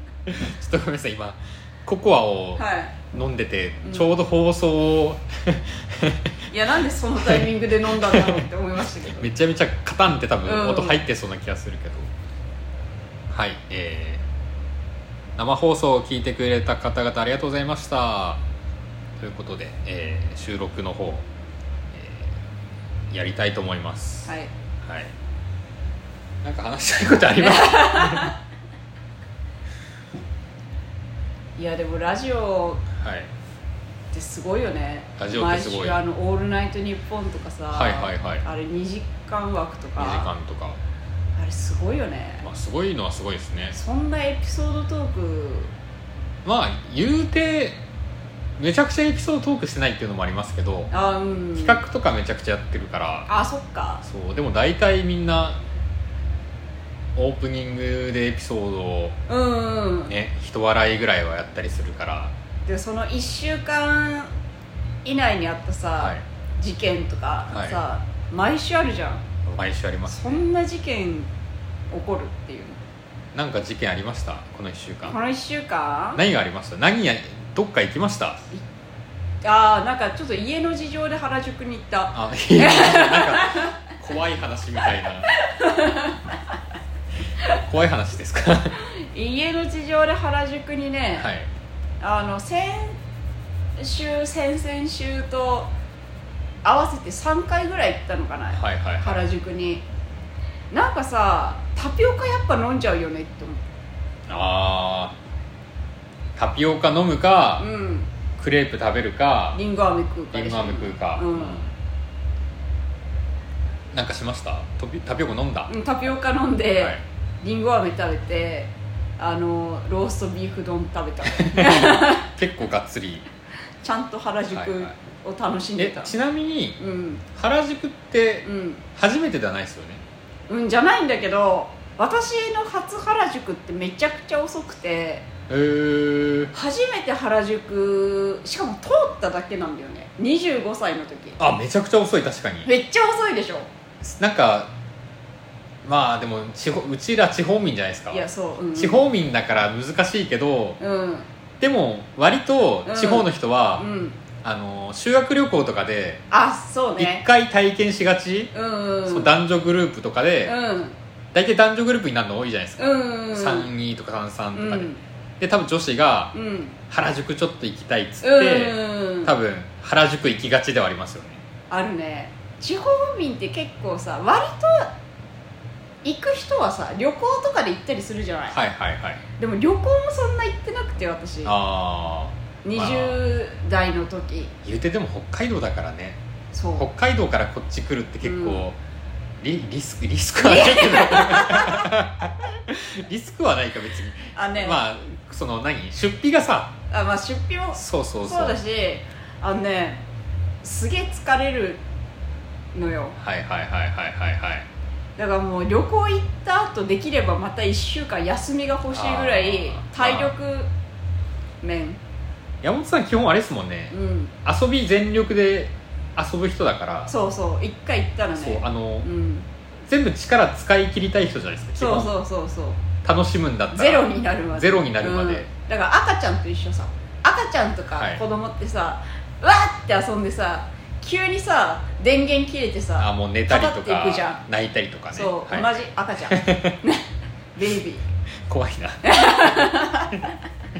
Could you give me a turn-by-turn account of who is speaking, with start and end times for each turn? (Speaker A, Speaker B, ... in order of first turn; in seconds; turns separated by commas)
Speaker A: 0.3-6.3, Speaker B: 2.6-3.0, Speaker B: 6.5-9.3, Speaker A: 8.0-8.5, Speaker A: 9.2-12.1, Speaker B: 10.4-11.0, Speaker A: 13.3-14.2, Speaker A: 15.4-18.4, Speaker A: 19.2-21.3, Speaker A: 21.9-22.4, Speaker A: 23.1-24.3, Speaker B: 24.2-24.5, Speaker A: 24.8-25.1, Speaker A: 26.4-28.3, Speaker B: 27.4-28.4, Speaker B: 31.6-32.8, Speaker A: 33.0-33.3, Speaker B: 34.1-40.3, Speaker A: 35.2-36.0, Speaker A: 37.7-38.4, Speaker A: 40.0-40.8, Speaker B: 41.4-42.5, Speaker A: 42.4-43.8, Speaker B: 43.7-45.7, Speaker A: 46.5-47.8, Speaker A: 48.6-50.9, Speaker B: 50.9-51.8, Speaker A: 51.6-53.3, Speaker B: 53.3-54.0, Speaker A: 54.0-55.6, Speaker A: 57.1-59.2, Speaker B: 59.3-60.1, Speaker A: 60.1-62.3, Speaker B: 62.7-64.3, Speaker B: 65.0-69.3, Speaker A: 66.0-66.2, Speaker A: 67.5-67.8, Speaker A: 69.5-70.4, Speaker B: 70.1-71.3, Speaker B: 71.9-72.8, Speaker A: 73.3-75.2, Speaker B: 75.0-76.2, Speaker A: 76.2-78.4, Speaker B: 79.4-83.7, Speaker A: 82.1-85.3, Speaker B: 85.4-86.3, Speaker A: 87.5-88.8, Speaker B: 88.8-91.3, Speaker A: 91.2-91.5, Speaker B: 92.0-93.0, Speaker B: 93.8-95.7, Speaker B: 96.6-99.8, Speaker A: 98.5-99.2, Speaker B: 100.7-103.6, Speaker A: 104.3-105.2, Speaker A: 106.4-107.7, Speaker B: 107.6-108.1, Speaker A: 108.4-109.6, Speaker B: 109.5-111.6, Speaker A: 110.3-111.7, Speaker A: 113.9-115.7, Speaker B: 115.7-122.3, Speaker A: 121.3-123.3, Speaker B: 123.8-126.1, Speaker A: 124.5-124.9, Speaker A: 125.8-126.8, Speaker B: 126.8-127.2, Speaker A: 127.3-130.0, Speaker B: 128.4-128.8, Speaker B: 130.5-135.3, Speaker A: 135.5-136.5, Speaker B: 136.5-141.4, Speaker A: 141.4-142.7, Speaker B: 142.7-143.7, Speaker A: 144.0-144.7, Speaker A: 145.8-150.8, Speaker B: 148.1-149.0, Speaker B: 150.8-151.3, Speaker A: 151.6-153.9, Speaker B: 152.9-154.2, Speaker A: 154.4-156.2, Speaker B: 156.3-157.2, Speaker A: 157.0-158.5, Speaker B: 158.5-159.3, Speaker A: 159.1-160.6, Speaker B: 160.4-161.0, Speaker A: 161.3-166.3, Speaker B: 162.8-163.7, Speaker B: 164.6-165.0, Speaker B: 166.3-166.8, Speaker A: 166.9-171.4, Speaker B: 168.2-169.3, Speaker B: 171.7-174.9, Speaker B: 176.0-178.6, Speaker A: 178.5-179.2, Speaker B: 179.4-181.5, Speaker A: 181.4-183.2, Speaker B: 182.6-184.5, Speaker A: 184.7-186.2, Speaker B: 186.5-186.9, Speaker A: 186.8-188.8, Speaker B: 188.2-188.7, Speaker A: 189.4-196.7, Speaker B: 190.4-191.9, Speaker B: 194.3-194.8, Speaker B: 196.9-200.0, Speaker A: 197.8-198.6, Speaker B: 200.6-201.8, Speaker B: 202.7-203.2, Speaker A: 203.2-204.7, Speaker B: 205.2-210.7, Speaker A: 208.9-210.3, Speaker B: 211.6-212.0, Speaker A: 212.6-217.1, Speaker B: 213.9-214.3, Speaker B: 217.1-219.5, Speaker A: 218.3-219.1, Speaker A: 219.9-222.1, Speaker B: 221.8-222.8, Speaker A: 223.0-225.5, Speaker B: 223.7-234.4, Speaker A: 227.9-228.2, Speaker A: 233.0-236.8, Speaker B: 235.1-238.1, Speaker A: 238.5-240.3, Speaker B: 239.0-240.3